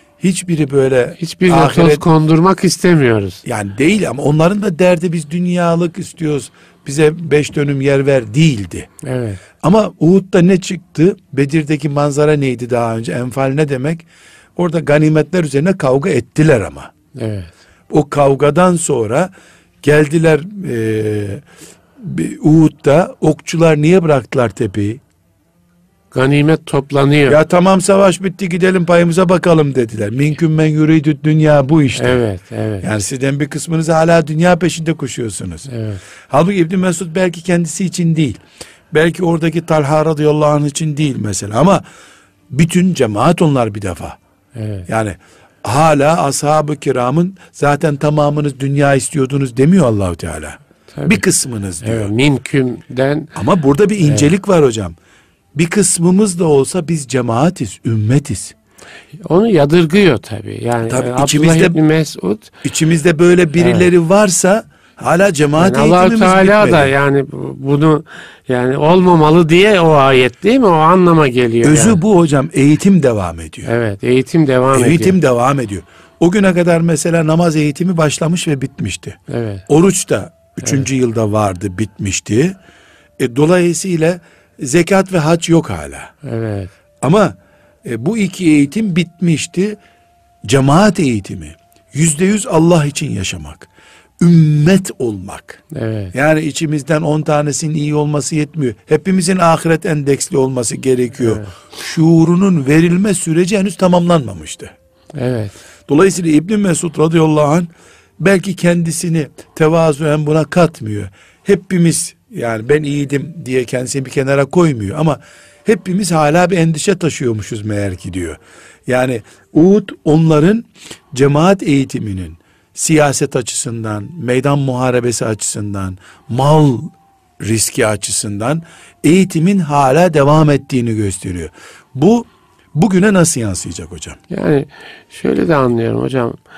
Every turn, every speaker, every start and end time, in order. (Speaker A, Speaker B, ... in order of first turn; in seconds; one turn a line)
Speaker A: 0.2-2.0
Speaker B: 1.2-3.4
Speaker A: 3.5-8.9
Speaker B: 9.0-9.4
Speaker A: 9.6-14.1
Speaker A: 14.6-16.9
Speaker B: 17.2-17.5
Speaker A: 17.9-19.3
Speaker A: 19.8-21.4
Speaker A: 22.0-25.0
Speaker B: 26.1-27.4
Speaker A: 27.3-32.2
Speaker B: 31.9-32.9
Speaker A: 32.8-35.7
Speaker B: 35.7-36.0
Speaker A: 36.3-38.4
Speaker A: 38.9-41.8
Speaker A: 42.5-44.2
Speaker B: 44.5-44.9
Speaker A: 44.9-52.1
Speaker B: 50.9-51.2
Speaker B: 51.8-53.3
Speaker A: 53.4-55.0
Speaker B: 54.0-54.3
Speaker A: 55.5-58.5
Speaker B: 59.2-62.5
Speaker A: 60.9-61.8
Speaker A: 62.6-66.9
Speaker B: 63.6-63.9
Speaker B: 65.6-72.0
Speaker A: 71.6-73.7
Speaker B: 73.6-75.2
Speaker A: 74.7-82.5
Speaker B: 79.3-79.7
Speaker A: 83.2-86.1
Speaker B: 86.2-86.7
Speaker A: 87.0-89.8
Speaker A: 90.5-93.7
Speaker A: 94.2-95.6
Speaker B: 95.7-96.1
Speaker A: 96.1-104.7
Speaker B: 101.2-101.5
Speaker B: 105.2-105.5
Speaker A: 105.9-107.7
Speaker A: 108.2-134.2
Speaker B: 134.3-136.4